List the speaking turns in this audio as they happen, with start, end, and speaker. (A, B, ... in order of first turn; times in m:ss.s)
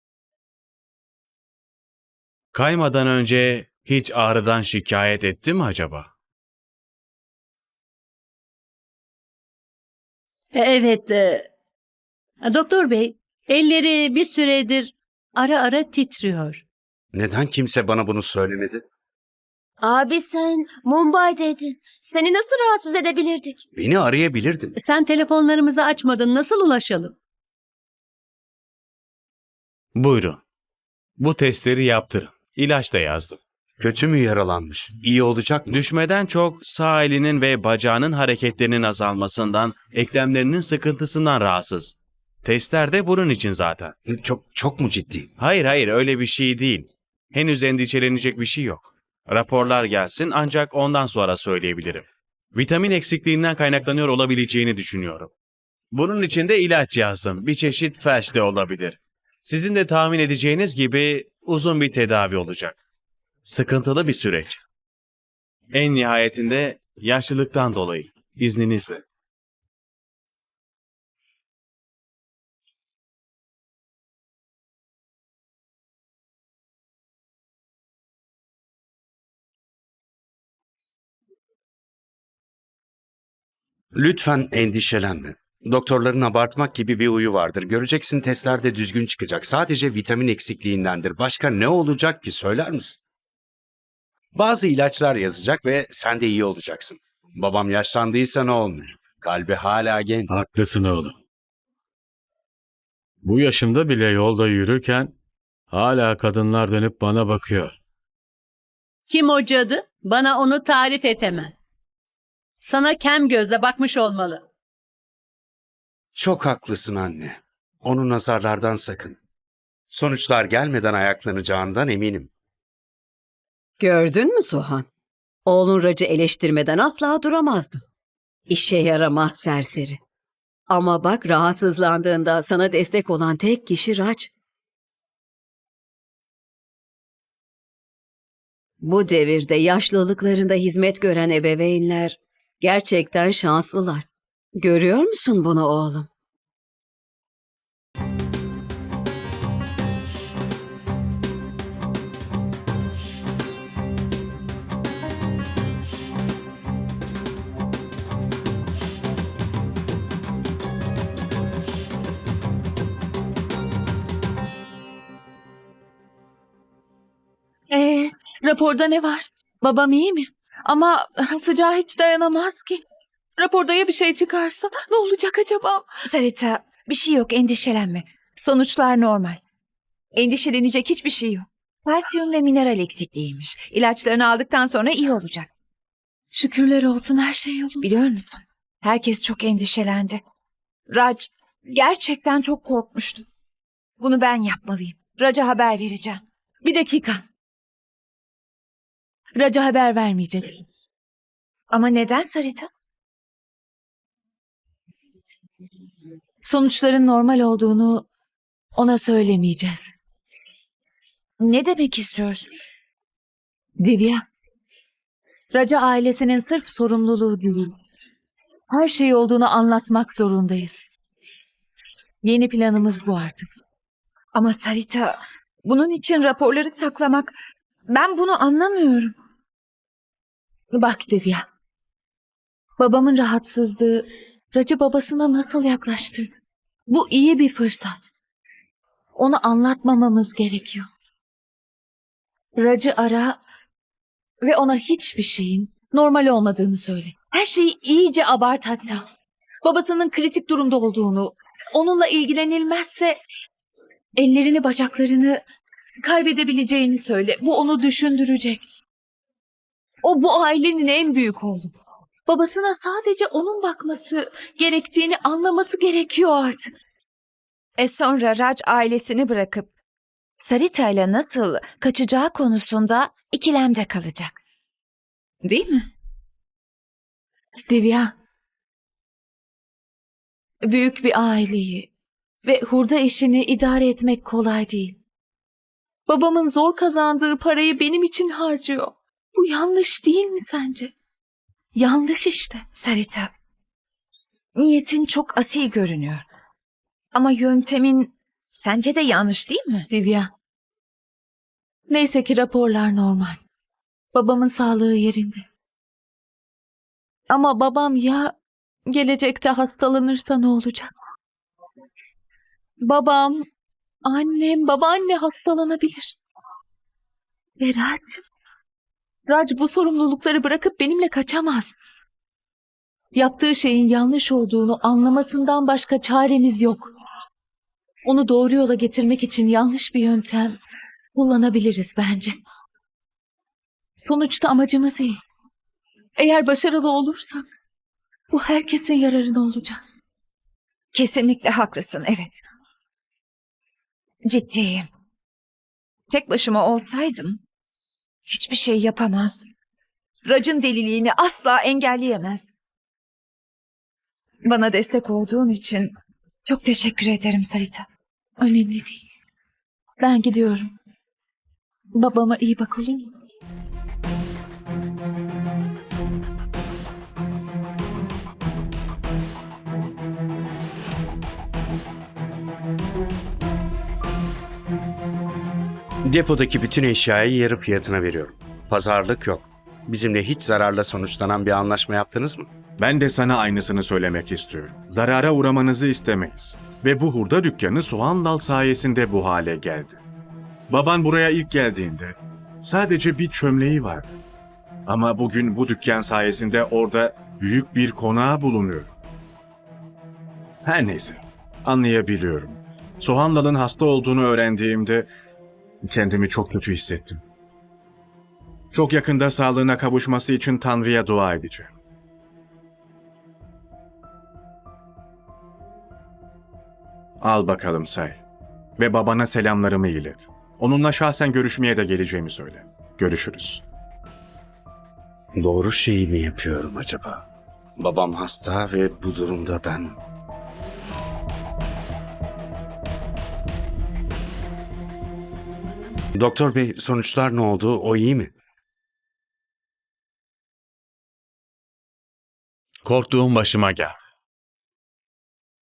0:02.5-0:06.1 A
0:10.5-0:11.5 B
0:12.4-0:16.6 B
0:17.1-0:18.8 C
0:19.8-0:23.6 D
0:23.8-0:24.8 C
0:24.8-0:27.1 B
0:30.0-0:30.4 A
0:31.2-0:33.4 A
0:33.8-0:35.8 C
0:35.7-0:43.9 A
0:44.1-0:45.3 C
0:45.4-0:55.3 A
0:55.9-1:02.8 A
1:03.4-1:04.6 A
1:05.7-1:09.0 A
1:23.9-1:33.0 C
1:34.3-1:40.3 C
1:40.3-1:41.1 E
1:43.2-1:45.1 E
1:45.7-1:47.8 E
1:49.1-1:51.5 B
1:52.6-1:54.4 B
1:56.1-1:59.2 C
1:59.9-2:02.3 C
2:03.8-2:04.9 F
2:05.4-2:07.8 F
2:08.5-2:10.0 F
2:10.7-2:14.3 F
2:18.8-2:26.1 F
2:47.7-2:52.8 G
2:53.4-2:55.9 G
2:56.1-2:59.4 H
3:00.1-3:05.5 H
3:06.3-3:07.9 G
3:07.8-3:10.2 H
3:10.9-3:13.3 H
3:14.0-3:16.2 H
3:16.6-3:17.2 G
3:19.4-3:20.6 G
3:21.7-3:22.7 H
3:26.4-3:28.1 G
3:28.8-3:29.9 G
3:31.4-3:32.5 H
3:33.8-3:34.2 G
3:35.5-3:37.7 G
3:38.7-3:40.8 G
3:42.2-3:43.5 G
3:44.3-3:47.3 H
3:47.9-3:49.1 H
3:50.7-3:51.4 G
3:52.8-3:56.3 G
3:56.9-3:58.1 G
3:59.2-4:00.9 G
4:02.6-4:03.4 G
4:04.4-4:09.0 G
4:09.6-4:13.2 G
4:14.2-4:15.4 G
4:16.0-4:18.6 G
4:20.0-4:21.7 G
4:22.3-4:26.7 G
4:27.8-4:29.7 H
4:30.4-4:34.4 H
4:35.4-4:35.9 H
4:37.7-4:38.1 G
4:40.6-4:41.9 G
4:42.4-4:45.0 G
4:46.1-4:50.9 G
4:51.8-4:52.6 G
4:52.8-4:53.3 H
4:54.6-4:56.2 H
4:57.1-4:59.9 H
4:59.9-5:00.3 G
5:01.9-5:03.4 G
5:04.1-5:05.4 G
5:07.3-5:08.3 G
5:08.9-5:10.9 G
5:12.8-5:13.4 G
5:14.0-5:16.2 G
5:17.6-5:18.2 G
5:19.3-5:21.8 G
5:23.1-5:26.9 G
5:28.0-5:30.6 G
5:31.2-5:32.4 G
5:34.0-5:35.2 G
5:36.2-5:37.4 G
5:38.3-5:39.8 G
5:40.9-5:42.4 H
5:44.2-5:44.9 H
5:46.1-5:47.4 H
5:48.3-5:49.5 H
5:50.2-5:52.5 H
5:54.4-5:55.9 H
5:56.4-5:57.8 H
5:58.4-5:59.0 G
6:00.0-6:00.7 G
6:01.9-6:03.1 G
6:16.1-6:22.5 C
6:22.8-6:30.0 I
6:30.7-6:34.2 I
6:34.9-6:38.9 I
6:40.6-6:45.1 I
6:45.8-6:47.2 I
6:48.7-6:51.7 I
6:57.2-6:58.2 I
6:58.8-7:03.6 I
7:05.4-7:07.2 C
7:07.8-7:10.0 C
7:16.2-7:18.3 C
7:22.8-7:24.0 A